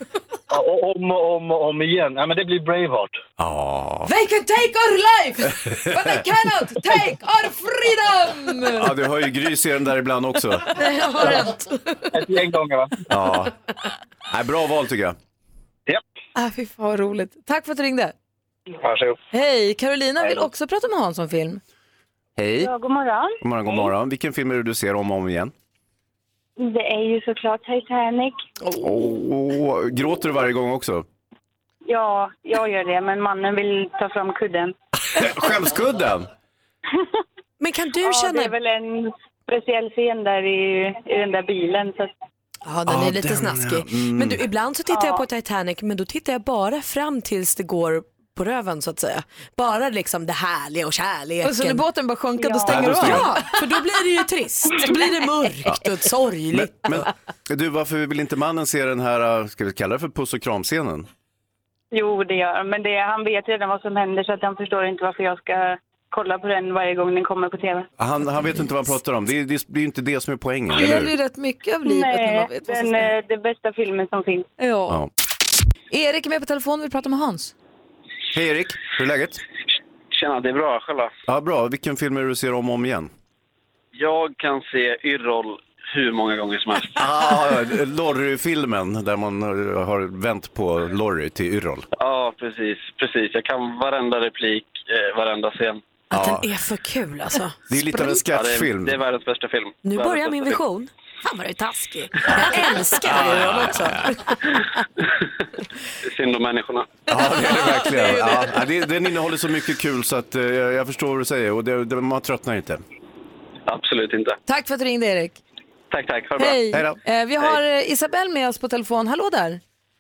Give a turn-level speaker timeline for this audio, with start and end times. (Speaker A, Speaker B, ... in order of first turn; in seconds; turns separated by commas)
Speaker A: 0.5-3.2, Speaker B: 3.4-4.1, Speaker C: 4.1-8.9, Speaker B: 5.7-6.2, Speaker B: 8.7-10.7, Speaker D: 10.8-12.0, Speaker A: 11.2-11.5, Speaker A: 12.1-13.1, Speaker B: 13.1-13.5, Speaker B: 14.3-15.2, Speaker C: 16.4-18.1, Speaker A: 18.9-19.1, Speaker C: 19.3-21.6, Speaker B: 22.4-22.7, Speaker E: 22.6-23.4, Speaker B: 23.4-25.5, Speaker E: 26.6-28.4, Speaker B: 28.8-31.1, Speaker E: 31.9-34.7, Speaker B: 35.1-36.3, Speaker D: 37.6-38.5, Speaker E: 38.0-42.1, Speaker D: 42.7-51.9, Speaker B: 42.9-44.4, Speaker E: 44.9-45.2, Speaker C: 51.4-53.5, Speaker B: 52.7-53.3, Speaker D: 52.7-57.1, Speaker B: 56.5-61.1, Speaker E: 61.9-67.9, Speaker B: 68.0-71.1, Speaker C: 70.7-73.1, Speaker E: 71.8-74.5, Speaker C: 74.6-75.0, Speaker C: 75.9-77.5, Speaker B: 78.3-79.4, Speaker F: 80.1-81.1, Speaker B: 81.3-83.1, Speaker F: 84.0-87.0, Speaker B: 87.0-91.9, Speaker F: 92.0-95.8, Speaker B: 96.1-96.5, Speaker D: 96.1-98.2, Speaker B: 97.7-99.0, Speaker F: 98.3-100.6, Speaker D: 99.8-104.7, Speaker B: 103.0-104.1, Speaker F: 106.1-107.0, Speaker B: 107.1-112.8, Speaker D: 107.3-108.5, Speaker F: 113.7-114.4, Speaker C: 114.5-115.4, Speaker F: 115.9-116.6, Speaker C: 116.4-119.6